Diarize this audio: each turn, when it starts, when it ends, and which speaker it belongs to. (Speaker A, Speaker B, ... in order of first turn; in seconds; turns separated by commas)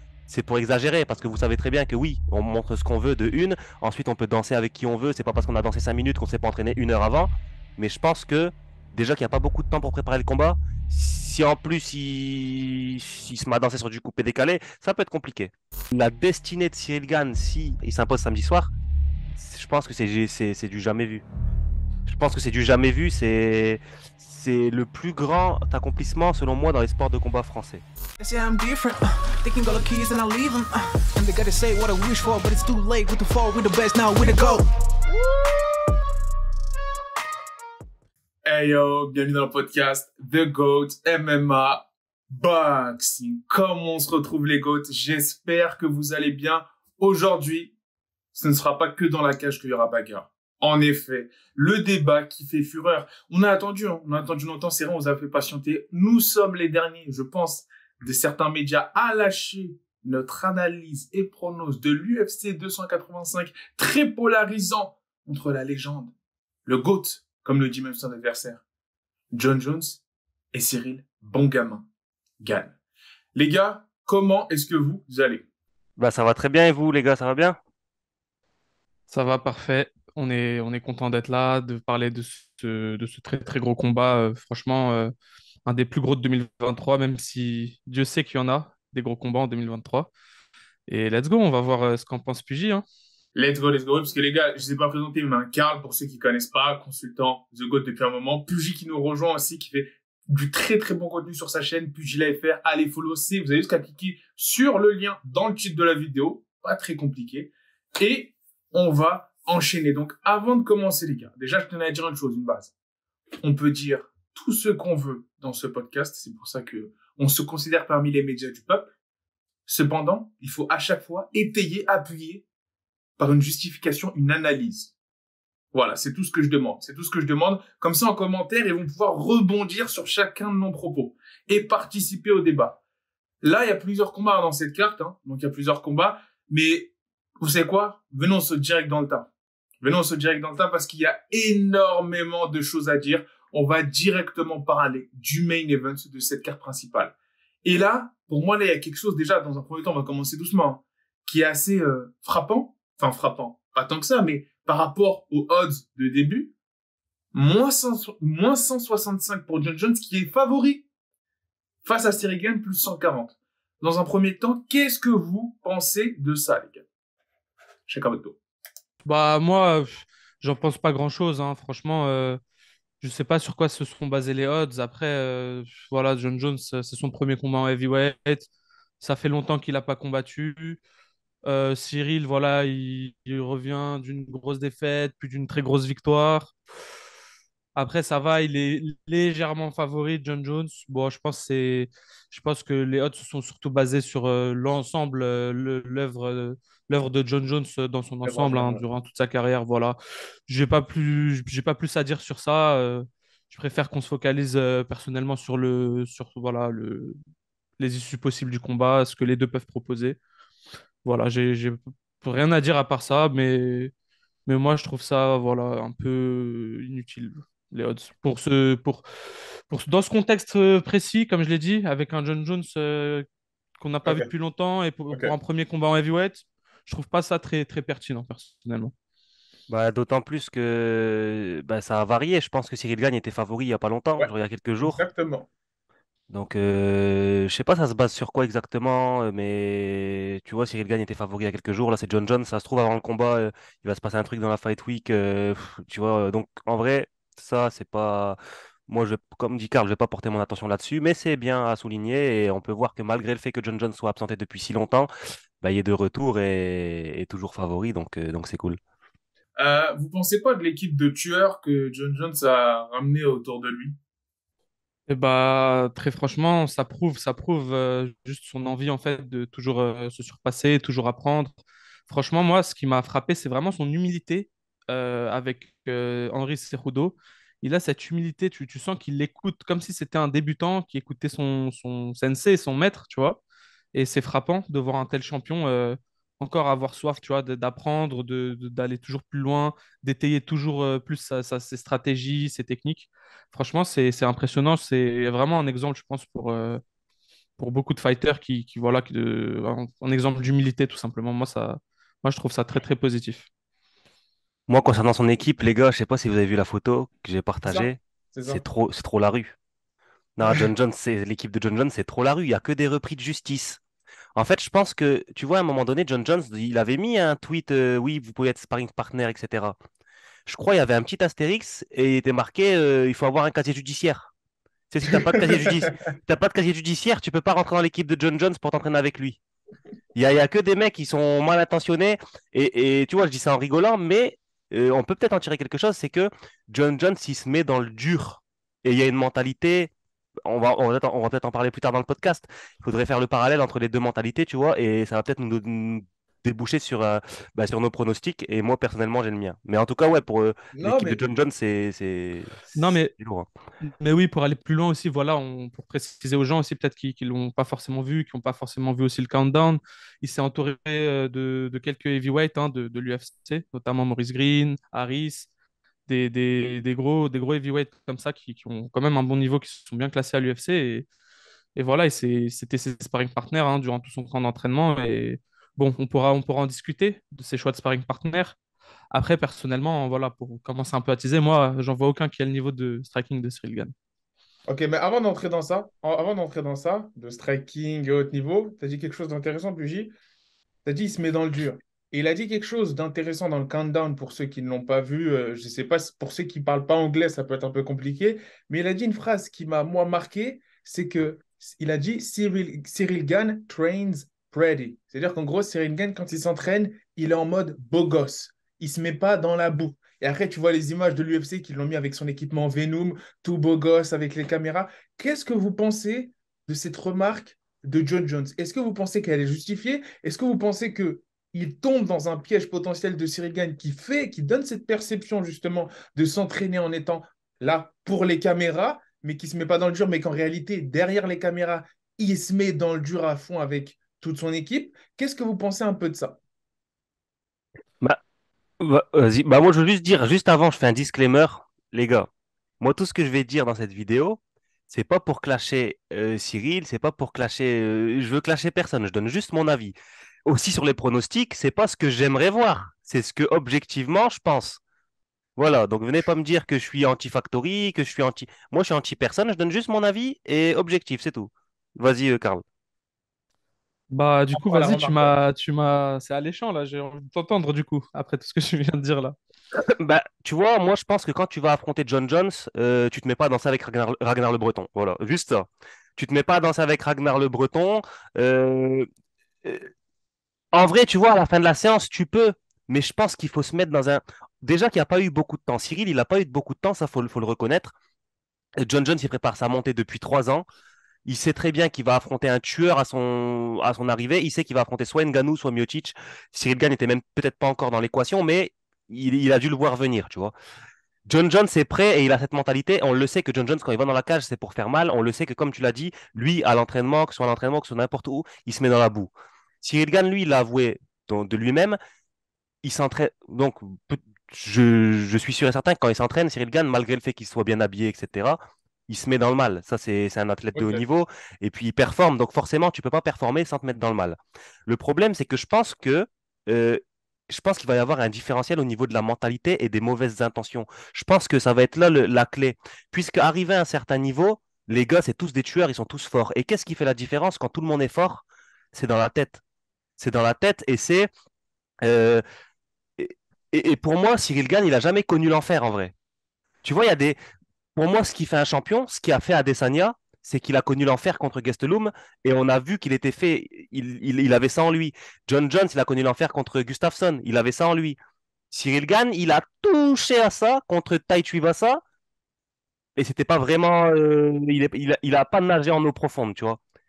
Speaker A: 0.3-18.7, Speaker A: 19.4-21.2, Speaker A: 22.1-27.8, Speaker B: 28.2-35.6, Speaker B: 38.4-47.7, Speaker B: 48.3-66.1, Speaker B: 66.7-68.6, Speaker B: 69.3-70.0, Speaker B: 70.5-71.8, Speaker B: 72.4-72.7, Speaker B: 73.3-75.4, Speaker A: 76.0-77.6, Speaker C: 79.1-85.1, Speaker C: 85.7-90.1, Speaker C: 90.9-92.8, Speaker B: 93.3-112.7, Speaker B: 113.4-118.9, Speaker B: 119.7-122.4, Speaker B: 123.2-124.9, Speaker B: 125.7-132.8, Speaker B: 133.4-139.3, Speaker B: 139.8-156.5, Speaker B: 157.3-160.8, Speaker B: 161.8-166.8, Speaker B: 167.9-168.4, Speaker C: 169.0-172.4, Speaker C: 173.0-178.5, Speaker C: 179.0-180.8, Speaker C: 181.4-186.5, Speaker C: 187.7-199.9, Speaker B: 198.2-198.8, Speaker C: 200.5-207.1, Speaker C: 207.8-210.2, Speaker C: 211.0-213.9, Speaker C: 214.5-219.0, Speaker C: 219.7-223.2, Speaker C: 223.8-228.9, Speaker B: 224.0-224.3, Speaker B: 225.1-225.3, Speaker A: 229.7-235.0, Speaker B: 234.8-235.5, Speaker A: 236.3-258.8, Speaker B: 259.6-264.0, Speaker C: 265.1-271.6, Speaker C: 272.1-283.4, Speaker C: 283.9-296.8, Speaker C: 297.6-303.5, Speaker A: 304.7-309.5, Speaker B: 307.6-308.6, Speaker A: 310.4-313.8, Speaker A: 314.4-319.8, Speaker A: 320.4-324.3, Speaker A: 324.9-329.4, Speaker A: 330.1-339.9, Speaker A: 340.4-352.6, Speaker B: 350.7-351.2, Speaker C: 352.7-353.1, Speaker A: 353.2-353.4, Speaker C: 353.8-365.5, Speaker C: 366.1-371.1, Speaker C: 371.8-378.6, Speaker C: 379.1-383.9, Speaker B: 384.7-390.1, Speaker B: 390.8-436.4, Speaker A: 438.8-442.3, Speaker A: 442.8-449.9, Speaker A: 450.5-454.8, Speaker A: 455.6-462.6, Speaker C: 464.1-469.4, Speaker B: 464.5-465.3, Speaker A: 469.7-479.1, Speaker A: 479.6-479.9, Speaker A: 480.7-487.9, Speaker A: 488.8-490.6, Speaker A: 491.2-500.5, Speaker A: 501.3-509.3, Speaker A: 509.8-512.0, Speaker A: 512.8-539.6, Speaker B: 520.7-521.0, Speaker A: 540.2-541.3, Speaker A: 542.0-542.4, Speaker A: 543.2-546.1, Speaker A: 546.8-547.4, Speaker A: 548.0-558.2, Speaker A: 558.7-562.0, Speaker A: 563.2-566.8